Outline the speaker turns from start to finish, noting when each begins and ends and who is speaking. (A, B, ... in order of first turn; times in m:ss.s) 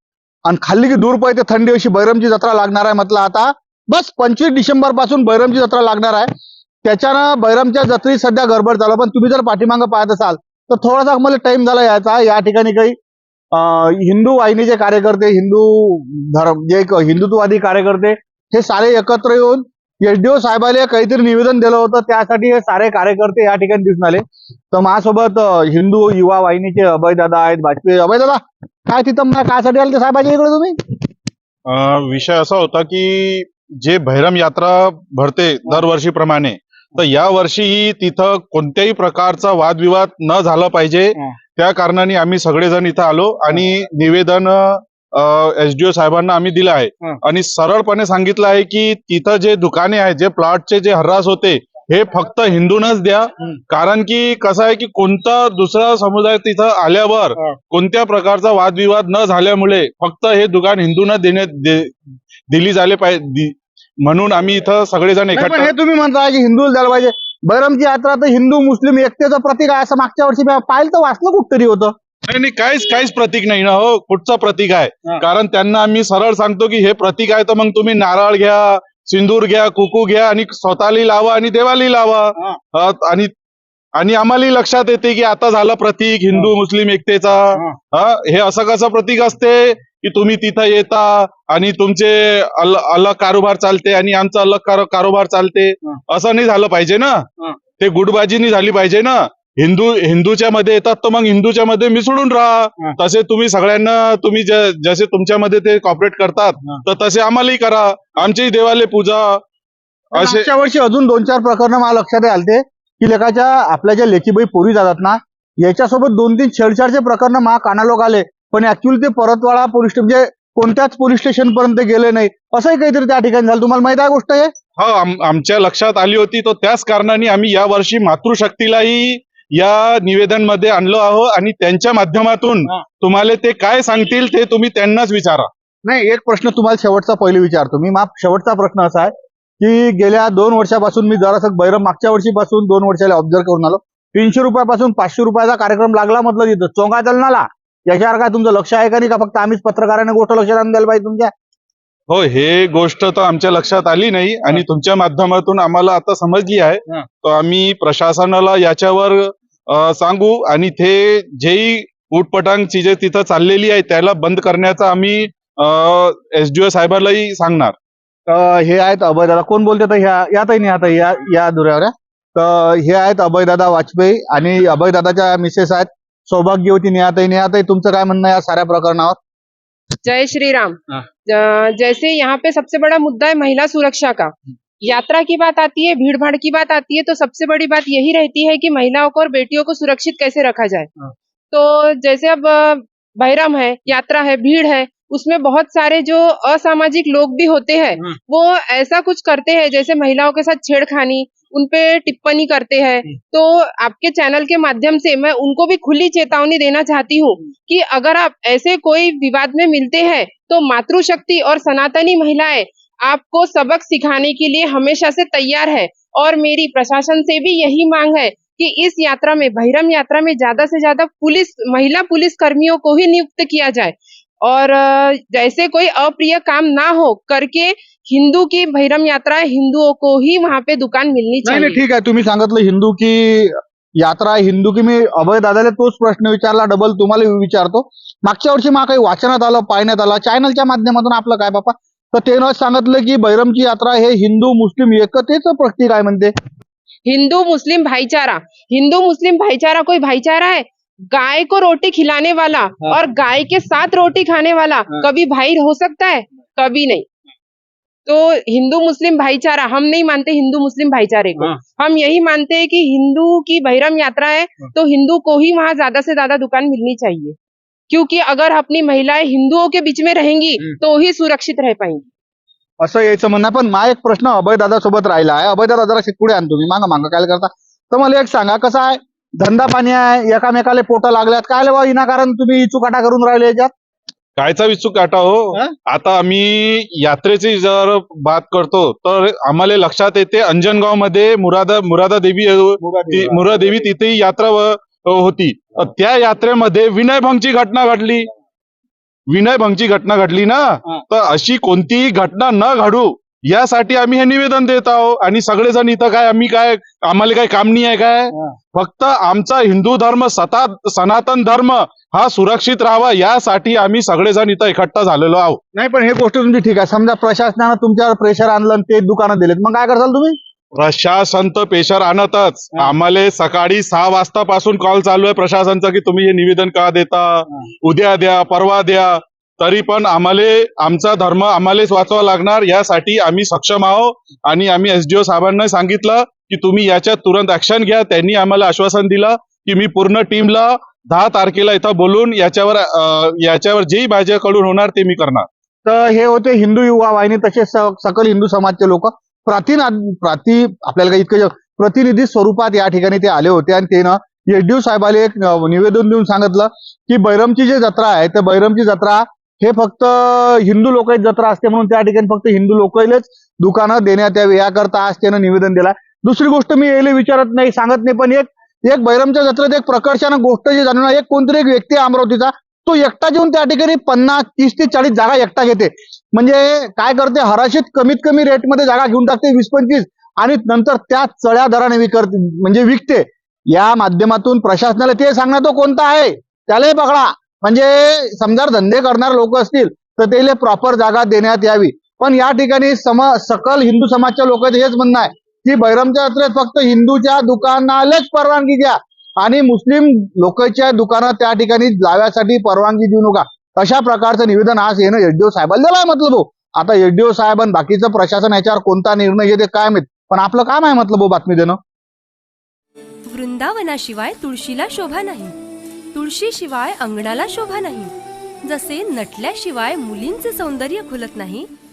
0:00.5-0:06.3 A
0:06.8-0:13.0 A
0:13.5-0:30.8 A
0:31.7-1:05.7 B
1:05.3-1:11.9 A
1:12.3-1:23.3 B
1:24.0-1:37.2 B
1:37.8-1:49.4 B
1:50.1-1:50.5 B
1:50.1-2:04.5 A
2:04.8-2:15.5 B
2:15.8-2:31.3 A
2:32.1-2:47.8 B
2:48.3-2:59.2 A
3:00.0-3:10.9 C
3:11.5-3:51.8 C
3:51.4-4:06.3 A
4:07.0-4:17.1 C
4:18.0-4:27.4 C
4:27.9-4:32.0 C
4:32.8-4:43.7 A
4:44.4-4:58.3 B
4:52.8-4:53.6 A
4:59.3-5:15.6 B
5:15.7-5:20.4 A
5:20.8-5:45.5 B
5:45.8-6:51.8 A
6:53.3-6:55.5 D
6:56.1-6:58.1 D
6:58.6-7:01.7 D